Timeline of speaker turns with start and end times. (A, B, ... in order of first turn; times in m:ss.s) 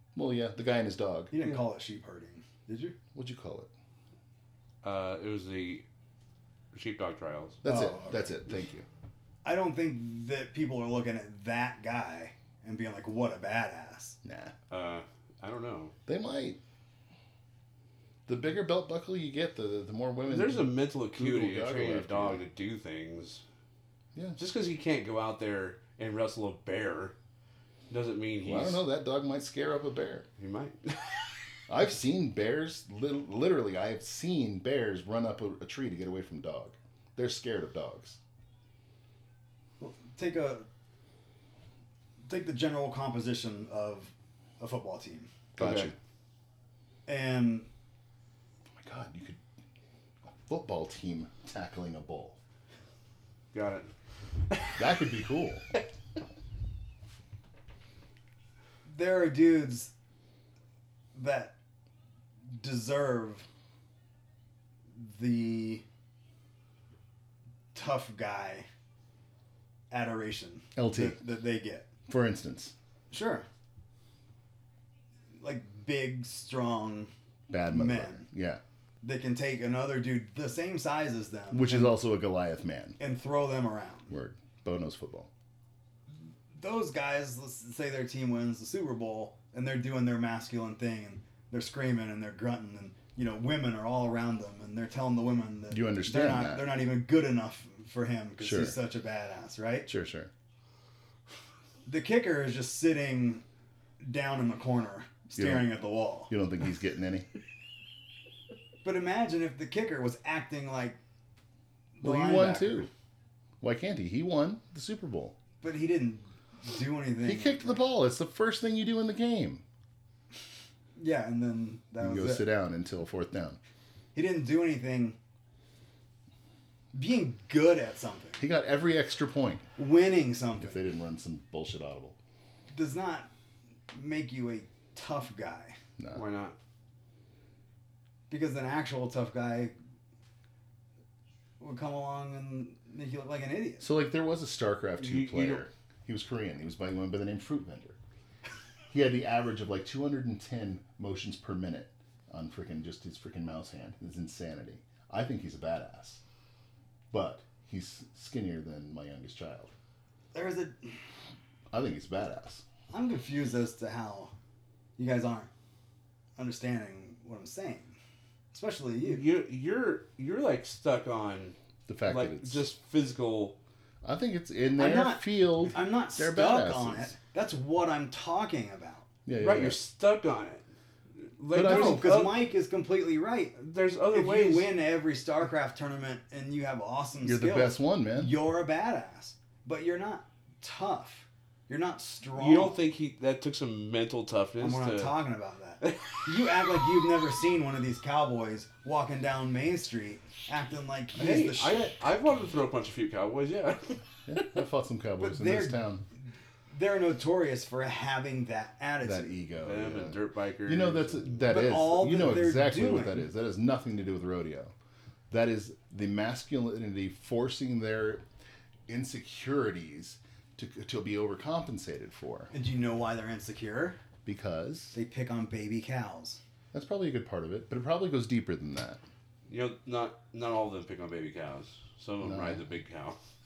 0:00.2-0:01.3 A
0:01.3-0:03.0 B
0:03.2-0:03.7 A
0:04.8-0:05.8 C
0:06.7-0:07.6 C
0:07.6-0:08.8 A
0:07.6-0:08.3 B
0:09.4-0:14.2 B
0:14.2-0:14.5 A
0:14.7-0:16.0 C
0:16.1-0:16.6 A
0:18.3-0:22.4 A
0:20.3-0:23.4 C
0:24.4-0:27.2 C
0:27.9-0:28.8 C
0:28.4-0:30.3 A
0:30.4-0:31.4 C
0:31.7-0:38.2 A
0:39.8-0:40.7 B
0:42.2-0:45.3 B
0:45.6-0:46.0 A
0:45.6-0:45.9 C
0:47.1-0:47.7 B
0:48.7-0:49.4 A
0:50.4-0:52.4 A
0:53.5-0:53.9 C
0:54.5-0:54.9 C
0:54.8-0:55.6 A
0:58.9-0:59.9 B
1:01.2-1:01.6 B
1:02.5-1:03.5 B
1:05.0-1:05.8 B
1:07.7-1:08.7 B
1:09.9-1:11.9 B
1:10.8-1:11.2 A
1:12.1-1:12.7 A
1:13.1-1:13.5 B
1:15.4-1:17.1 B
1:17.5-1:18.6 A
1:17.7-1:18.2 B
1:19.0-1:22.0 B
1:21.5-1:23.0 A
1:23.0-1:24.1 B
1:24.1-1:25.3 A
1:26.5-1:39.9 B
1:35.7-1:36.7 A
1:38.4-1:38.8 A
1:39.9-1:40.3 A
1:41.9-1:43.4 B
1:44.0-1:46.3 B
1:45.3-1:47.3 A
1:48.8-1:51.0 B
1:52.0-1:52.9 B
1:52.0-1:52.9 A
1:53.6-1:55.4 A
1:55.6-1:57.8 B
1:57.2-1:59.6 A
2:01.0-2:02.5 B
2:02.0-2:03.6 A
2:04.2-2:05.2 B
2:06.9-2:08.4 B
2:08.4-2:09.7 A
2:09.8-2:10.8 B
2:10.6-2:12.2 A
2:12.7-2:13.3 B
2:13.9-2:15.8 B
2:16.1-2:16.6 C
2:18.3-2:19.8 B
2:21.6-2:23.9 B
2:23.8-2:28.0 A
2:25.0-2:25.6 C
2:28.9-2:36.2 A
2:37.1-2:39.7 A
2:40.3-2:40.9 B
2:41.7-2:42.6 A
2:42.9-2:44.3 B
2:45.0-2:45.5 B
2:46.4-2:48.0 B
2:48.5-2:49.2 B
2:49.0-2:53.6 C
2:51.9-2:52.7 A
2:54.0-2:57.2 A
2:54.8-2:59.1 B
2:59.3-2:59.8 A
2:59.4-3:00.6 C
3:01.2-3:02.4 C
3:01.5-3:02.1 A
3:01.6-3:12.8 B
3:03.6-3:04.8 C
3:07.2-3:08.4 A
3:12.4-3:15.2 C
3:14.6-3:22.0 B
3:15.8-3:16.3 C
3:21.1-3:24.0 C
3:24.3-3:26.0 A
3:25.2-3:25.9 B
3:26.7-3:29.3 B
3:29.0-3:34.7 A
3:29.6-3:31.5 C
3:31.5-3:33.2 B
3:35.3-3:38.2 A
3:38.9-3:42.5 A
3:42.5-3:44.0 B
3:44.3-3:45.0 A
3:44.9-3:46.4 B
3:46.7-3:49.0 A
3:49.5-3:53.2 C
3:52.2-3:52.6 A